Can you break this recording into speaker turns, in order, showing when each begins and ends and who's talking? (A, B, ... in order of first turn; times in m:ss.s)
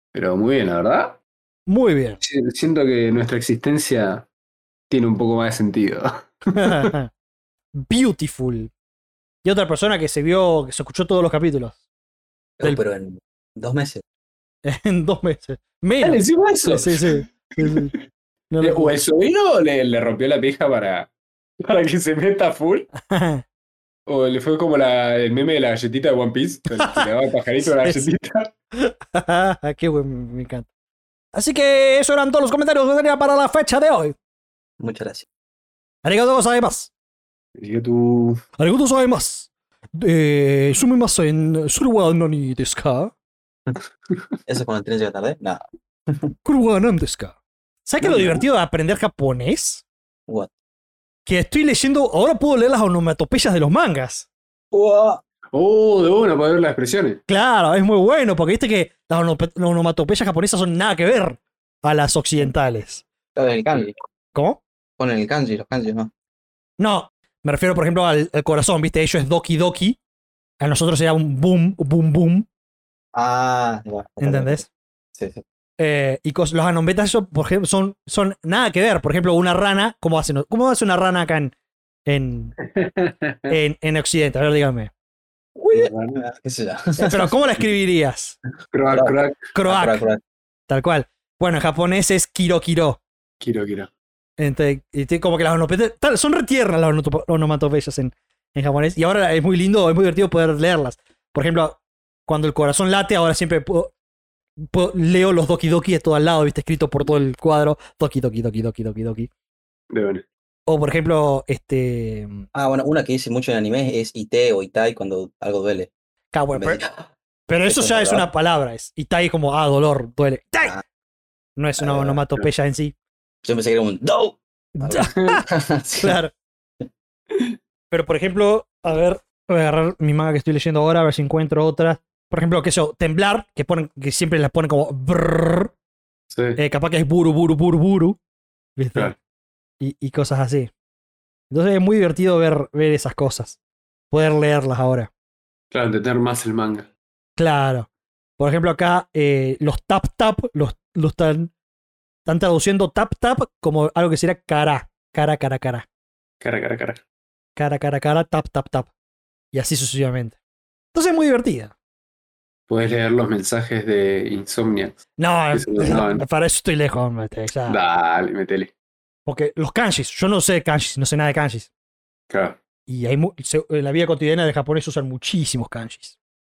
0:00.1-0:01.2 A
0:01.7-0:02.2 B
0:02.2-0:04.3 A
0:04.9-0:06.9 A
0:06.6-0:07.1 B
0:07.8-0:08.7 B
0:09.4-0:11.8 B
0:12.6-0:14.0 C
0:14.6-0:17.9 B
0:16.0-0:17.9 A
0:18.5-0:19.0 B
0:18.6-0:22.9 A
0:23.0-0:23.4 B
0:24.1-0:28.5 A
0:26.8-0:27.1 B
0:27.7-0:28.1 B
0:28.7-0:30.7 B
0:31.3-0:34.2 B
0:34.8-0:35.3 C
0:36.0-0:36.9 B
0:37.6-0:38.4 A
0:38.6-0:43.1 B
0:44.5-0:46.3 C
0:46.4-0:49.8 B
0:48.0-0:48.4 A
0:51.3-0:54.3 B
0:54.7-0:55.2 C
0:55.5-0:57.2 A
0:57.3-1:03.0 B
1:03.4-1:03.9 C
1:04.3-1:04.6 B
1:05.0-1:06.1 C
1:06.8-1:10.0 B
1:10.6-1:12.5 B
1:13.1-1:15.4 C
1:14.2-1:14.6 B
1:15.8-1:21.5 B
1:22.1-1:22.6 B
1:22.7-1:23.6 A
1:23.5-1:24.9 B
1:25.6-1:27.4 C
1:25.7-1:26.2 A
1:27.0-1:28.4 B
1:28.7-1:29.5 A
1:28.9-1:30.2 C
1:29.5-1:30.0 B
1:30.7-1:33.0 B
1:33.4-1:33.9 A
1:34.4-1:43.9 B
1:44.6-1:49.3 B
1:49.9-1:50.2 A
1:50.7-1:52.5 B
1:52.5-1:55.9 C
1:56.3-1:56.8 B
1:56.5-1:57.1 C
1:57.5-2:00.8 B
1:57.7-1:58.3 C
2:01.6-2:02.9 B
2:01.8-2:02.2 C
2:03.4-2:06.2 C
2:04.8-2:05.5 B
2:05.0-2:05.4 A
2:06.0-2:06.3 B
2:07.9-2:15.7 B
2:16.3-2:16.6 A
2:16.6-2:18.2 B
2:18.8-2:19.1 B
2:19.8-2:20.7 B
2:21.5-2:23.6 B
2:24.1-2:25.1 B
2:25.7-2:26.9 A
2:27.4-2:27.9 B
2:28.4-2:31.5 B
2:32.3-2:35.9 B
2:36.4-2:37.0 A
2:37.6-2:38.9 B
2:39.5-2:40.4 B
2:40.9-2:41.7 B
2:42.7-2:46.2 A
2:45.2-2:47.8 B
2:47.7-2:48.7 A
2:49.3-2:51.7 B
2:52.3-2:52.6 A
2:52.9-2:56.2 B